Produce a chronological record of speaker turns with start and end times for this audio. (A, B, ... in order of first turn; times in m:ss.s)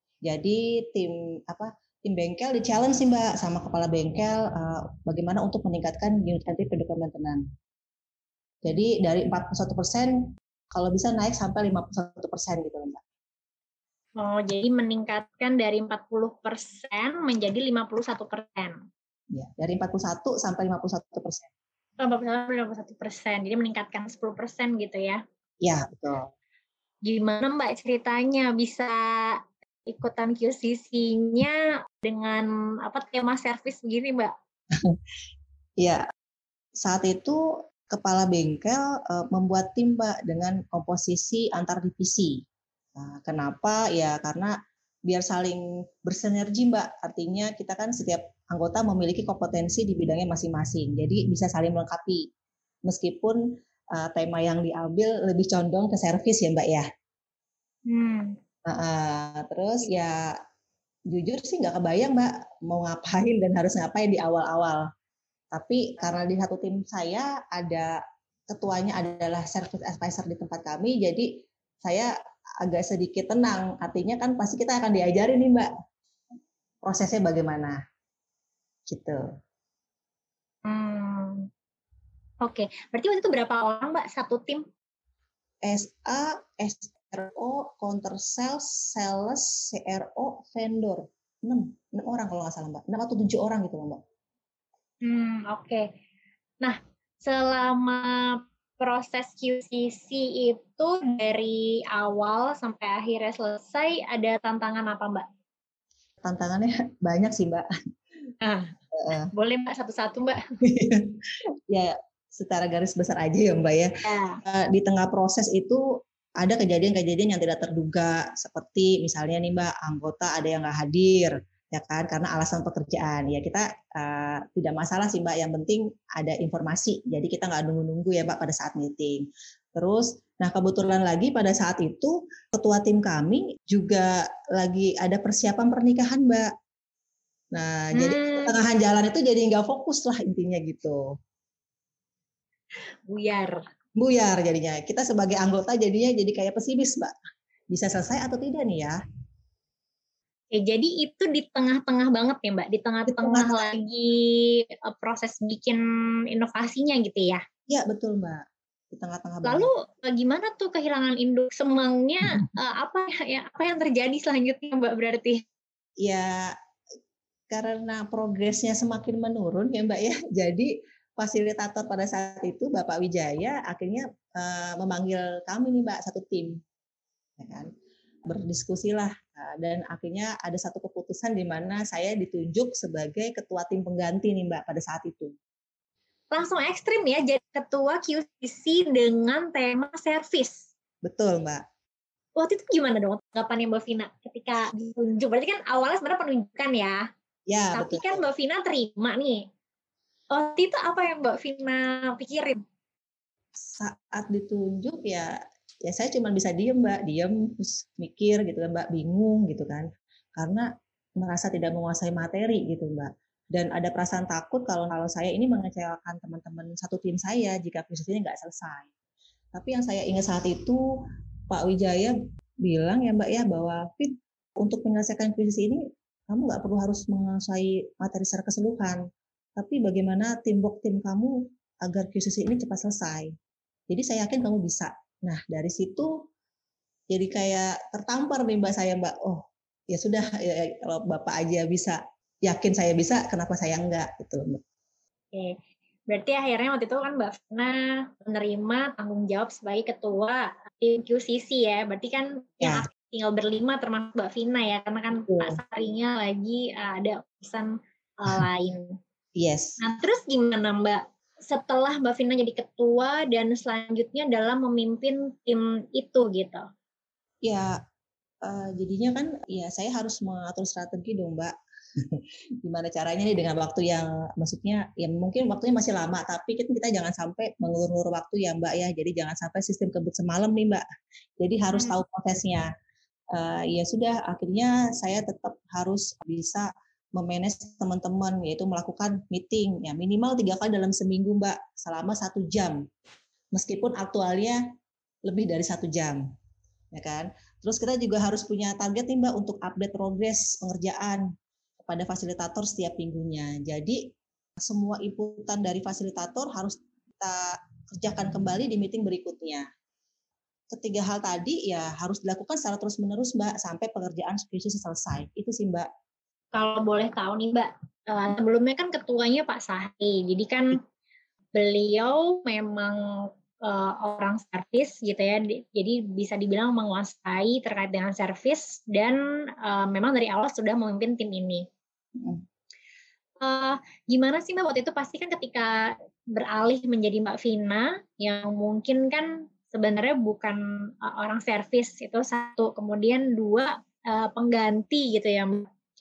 0:00.2-0:07.4 A
0:08.6-0:10.2 A
0:10.7-0:13.0 A
0:14.2-0:18.8 B
0:19.3-0:21.5 A
0:22.0-0:25.2 B
0:25.6-0:26.2 A
0:27.0-0:34.3 B
0:36.8-0:42.4 A
0:42.9-0:44.5 A
0:45.1-0:52.3 A
0:52.8-0:53.4 A
0:53.9-0:56.8 A
0:57.9-0:58.3 B
0:58.6-1:00.3 A
1:01.1-1:04.8 A
1:05.5-1:07.9 A
1:08.5-1:11.3 A
1:11.8-1:12.1 A
1:12.6-1:15.7 A
1:16.8-1:17.8 A
1:18.9-1:19.2 A
1:20.6-1:21.5 B
1:22.4-1:24.6 B
1:25.6-1:34.0 A
1:35.0-1:35.9 B
1:36.6-1:45.2 B
1:46.2-1:47.7 A
1:48.4-1:50.4 B
1:48.9-1:49.3 A
1:50.6-1:51.2 A
1:51.7-1:53.9 A
1:54.0-1:54.4 B
1:54.4-1:55.8 A
1:56.4-2:16.5 A
2:17.5-2:21.0 A
2:18.0-2:18.6 B
2:23.1-2:23.6 B
2:24.0-2:27.1 A
2:27.7-2:29.0 A
2:30.5-2:37.4 B
2:33.1-2:33.7 A
2:37.7-2:39.7 A
2:39.4-2:45.4 B
2:46.0-2:46.5 A
2:47.5-2:56.6 A
2:57.4-2:57.7 A
2:58.3-3:05.4 A
3:06.3-3:10.7 B
3:11.0-3:11.6 A
3:12.4-3:17.0 B
3:17.5-3:18.2 A
3:17.7-3:19.4 B
3:20.3-3:22.6 B
3:23.6-3:25.3 A
3:25.8-3:30.7 A
3:31.2-3:38.9 A
3:39.5-3:40.8 A
3:41.5-3:49.0 A
3:49.6-3:53.3 A
3:53.9-3:56.1 A
3:57.1-4:04.6 A
4:06.1-4:19.0 B
4:15.2-4:15.6 A
4:19.4-4:19.8 A
4:19.8-4:26.6 B
4:27.4-4:27.7 A
4:28.4-4:40.8 A
4:41.4-4:42.7 A
4:41.7-4:42.0 B
4:43.3-4:52.8 A
4:53.5-4:54.6 A
4:55.2-4:56.2 A
4:56.9-5:01.2 A
5:01.8-5:09.7 A
5:10.7-5:15.9 A
5:16.5-5:20.8 B
5:21.5-5:31.6 B
5:32.2-5:32.4 A
5:33.4-5:45.7 B